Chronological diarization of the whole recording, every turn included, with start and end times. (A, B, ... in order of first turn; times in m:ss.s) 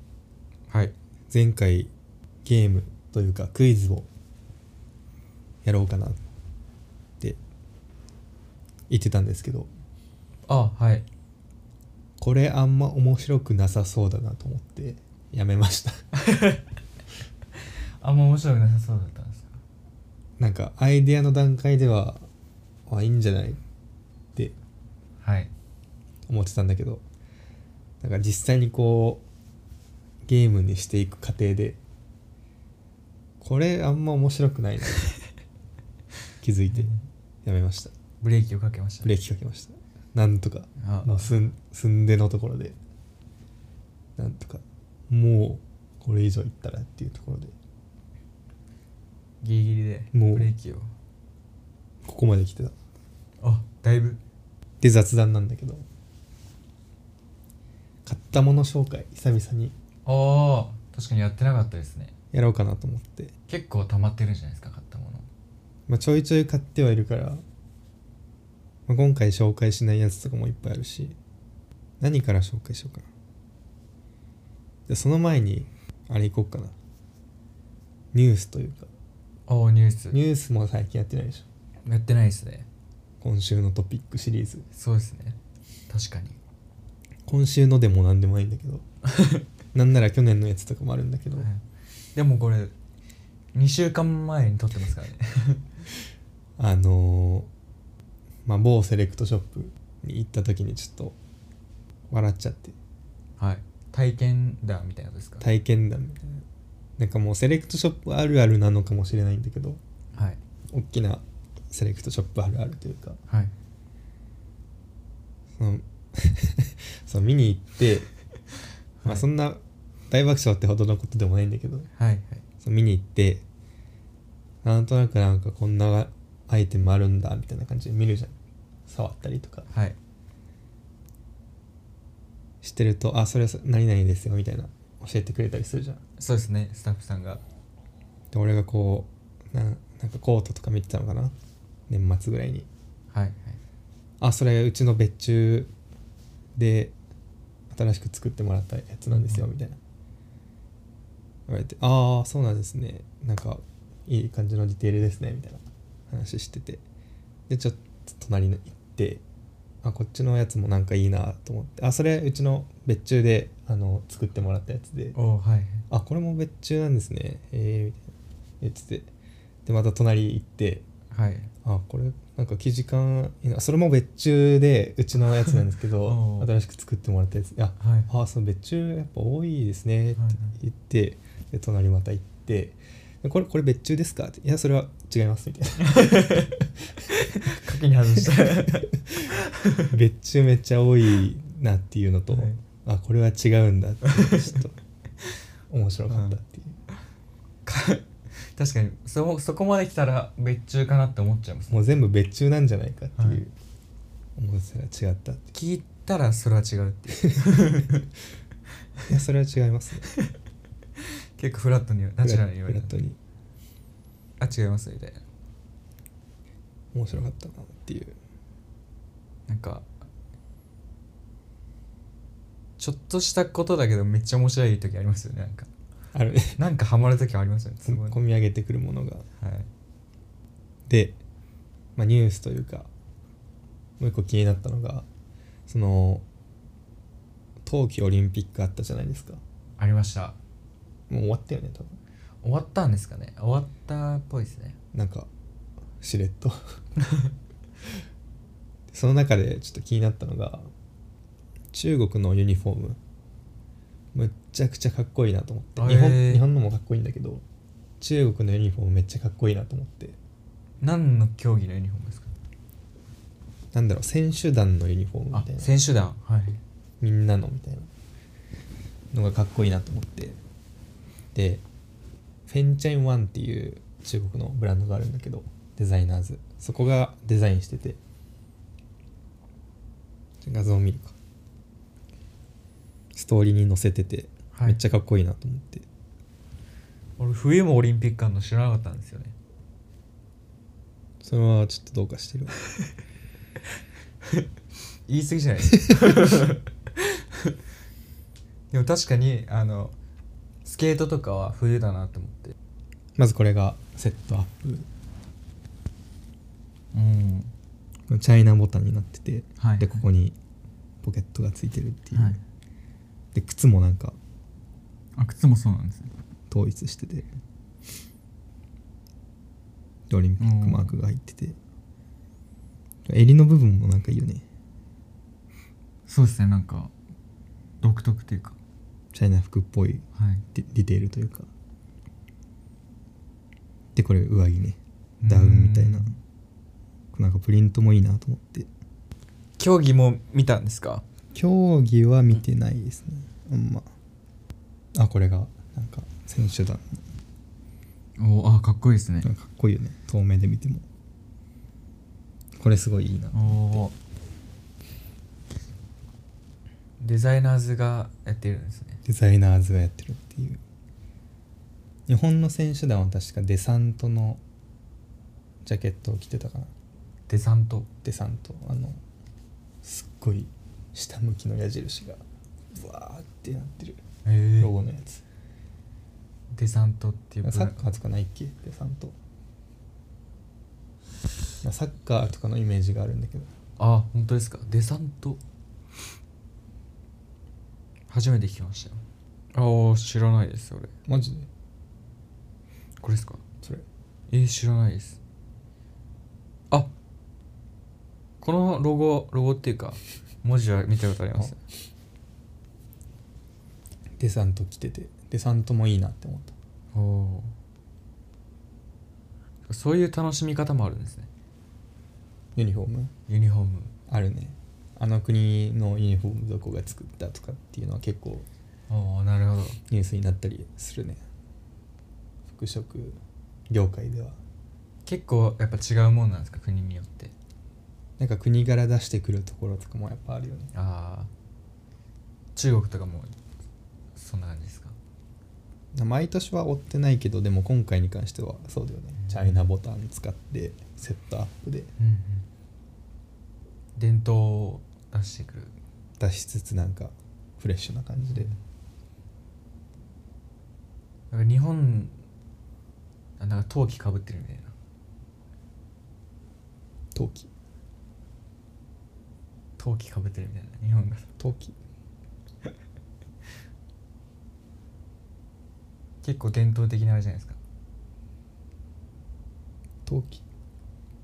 0:00.7-0:00.9 A
0:01.3-0:01.9 B
0:02.4-0:04.1 B
0:05.6-0:06.2 B
0:08.9-0:09.7 B
0:10.5-0:11.0 A
0:12.2-0:16.0 B
0:16.1-0:16.7 A
0:17.5-0:19.6 A
0:20.4-0:22.2 B
0:22.9-0:23.6 B
0:25.2-0:25.5 A
0:26.3-0:27.0 B
0:28.0-0:29.2 B
0:30.2-0:31.8 B
0:33.4-0:35.1 B
0:36.4-0:37.9 B
0:38.2-0:39.1 A
0:39.0-0:42.8 B
0:40.8-0:41.3 A
0:44.2-0:47.5 B
0:49.4-0:50.9 A
0:50.1-0:50.5 B
0:52.0-0:52.7 B
0:53.4-0:54.2 A
0:54.8-0:55.8 B
0:58.0-0:59.7 B
1:00.0-1:02.1 A
1:02.3-1:03.3 B
1:03.5-1:05.3 A
1:05.9-1:07.4 B
1:08.9-1:11.2 B
1:12.0-1:13.0 B
1:14.9-1:16.7 B
1:18.1-1:18.9 B
1:19.5-1:20.2 A
1:20.1-1:21.4 B
1:21.8-1:22.7 A
1:23.2-1:24.7 B
1:24.7-1:25.4 A
1:25.9-1:26.4 A
1:27.3-1:28.8 B
1:29.0-1:29.4 A
1:29.7-1:31.5 B
1:31.3-1:31.6 A
1:32.1-1:32.7 A
1:33.5-1:35.7 A
1:36.6-1:37.5 B
1:38.4-1:41.2 B
1:42.1-1:42.8 B
1:43.4-1:45.4 A
1:45.4-1:46.4 B
1:47.0-1:49.8 B
1:50.7-1:53.2 B
1:55.6-1:58.1 B
1:59.0-1:59.2 A
1:59.0-2:01.9 B
2:02.0-2:02.4 A
2:02.6-2:03.4 B
2:04.6-2:08.3 B
2:08.9-2:09.7 B
2:09.7-2:10.0 A
2:12.6-2:16.0 B
2:16.2-2:17.4 A
2:18.3-2:21.3 B
2:21.9-2:22.7 B
2:23.1-2:23.6 A
2:24.2-2:25.7 B
2:26.6-2:26.9 B
2:27.7-2:29.8 B
2:29.2-2:29.4 A
2:31.5-2:36.8 B
2:37.5-2:39.2 B
2:39.8-2:45.2 B
2:45.1-2:45.8 A
2:45.9-2:49.1 B
2:49.6-2:50.8 B
2:51.1-2:51.5 A
2:51.6-3:07.0 B
2:56.0-2:56.5 A
2:57.8-2:58.1 A
3:00.2-3:00.5 A
3:05.8-3:06.6 A
3:07.1-3:10.0 A
3:08.2-3:09.3 B
3:09.9-3:14.8 B
3:12.3-3:12.6 A
3:14.1-3:14.6 A
3:15.7-3:16.8 B
3:17.6-3:21.8 A
3:21.7-3:23.5 B
3:23.2-3:23.4 A
3:24.4-3:25.5 B
3:25.5-3:28.0 A
3:29.1-3:30.1 B
3:31.0-3:33.0 A
3:32.2-3:33.2 B
3:34.4-3:35.2 A
3:36.9-3:38.2 B
3:39.5-3:39.9 A
3:42.8-3:45.7 A
3:46.1-3:46.6 B
3:46.6-3:48.2 A
3:47.8-3:49.2 B
3:49.4-3:49.7 A
3:50.9-3:51.2 B
3:52.0-3:52.9 B
3:54.0-3:55.0 B
3:55.7-3:56.2 B
3:57.6-3:59.4 B
3:59.8-4:00.4 A
4:01.1-4:02.0 B
4:02.4-4:04.8 A
4:04.9-4:05.3 B
4:06.0-4:06.6 B
4:08.9-4:10.7 B
4:11.7-4:13.0 B
4:14.1-4:17.4 B
4:15.8-4:16.4 A
4:18.0-4:20.2 B
4:20.8-4:22.3 A
4:23.7-4:25.8 B
4:25.3-4:26.6 A
4:27.0-4:27.9 B
4:29.1-4:30.4 B
4:31.3-4:31.6 B
4:32.5-4:38.0 B
4:40.4-4:41.2 B
4:43.1-4:45.8 B
4:44.5-4:44.8 A
4:47.2-4:49.3 A
4:51.2-4:52.5 B
4:55.1-4:57.6 A
4:58.7-5:00.0 A
5:00.6-5:02.5 A
5:03.2-5:04.9 B
5:06.9-5:07.5 A
5:08.1-5:10.4 B
5:09.6-5:10.0 A
5:11.0-5:12.4 B
5:12.1-5:12.4 A
5:13.3-5:14.2 B
5:15.2-5:16.1 A
5:16.5-5:17.3 B
5:20.1-5:21.6 B
5:20.4-5:20.9 A
5:23.0-5:24.4 B
5:26.1-5:26.9 A
5:27.8-5:28.6 A
5:29.1-5:31.5 B
5:30.1-5:30.4 A
5:33.9-5:36.1 B
5:35.2-5:36.2 A
5:37.1-5:38.7 B
5:39.6-5:41.0 A
5:41.3-5:43.9 B
5:44.9-5:47.0 B
5:48.2-5:49.3 A
5:49.2-5:50.8 B
5:52.6-5:53.9 B
5:53.3-5:53.9 A
5:57.0-5:59.0 A
5:59.0-6:00.6 B
6:02.1-6:04.4 B
6:05.6-6:06.7 B
6:07.3-6:07.9 A
6:08.0-6:09.0 B
6:09.8-6:12.2 B
6:12.7-6:14.0 B
6:14.2-6:14.7 A
6:14.6-6:15.2 B
6:16.5-6:17.8 A
6:17.4-6:19.1 B
6:21.6-6:23.5 B
6:23.8-6:25.4 A
6:28.1-6:29.0 A
6:29.5-6:30.9 A
6:31.1-6:31.5 B
6:33.0-6:33.4 A
6:34.3-6:35.2 A
6:38.4-6:41.6 A
6:44.2-6:46.5 B
6:46.9-6:47.5 A
6:49.7-6:51.3 A
6:52.6-6:53.1 B
6:53.3-6:53.9 A
6:54.1-6:58.4 B
6:58.9-6:59.8 A
6:59.9-7:01.2 B
7:02.5-7:04.4 B
7:05.0-7:07.3 A
7:08.2-7:10.7 B
7:10.7-7:11.3 A
7:12.5-7:13.3 A
7:14.1-7:15.0 A
7:15.9-7:21.9 B
7:19.2-7:19.6 A
7:22.0-7:22.4 A
7:24.0-7:25.7 A
7:26.2-7:28.5 B
7:31.3-7:32.1 A
7:33.4-7:34.7 A
7:37.1-7:37.5 B
7:39.8-7:41.3 A
7:41.4-7:41.8 B
7:46.2-7:47.6 A
7:50.0-7:50.4 B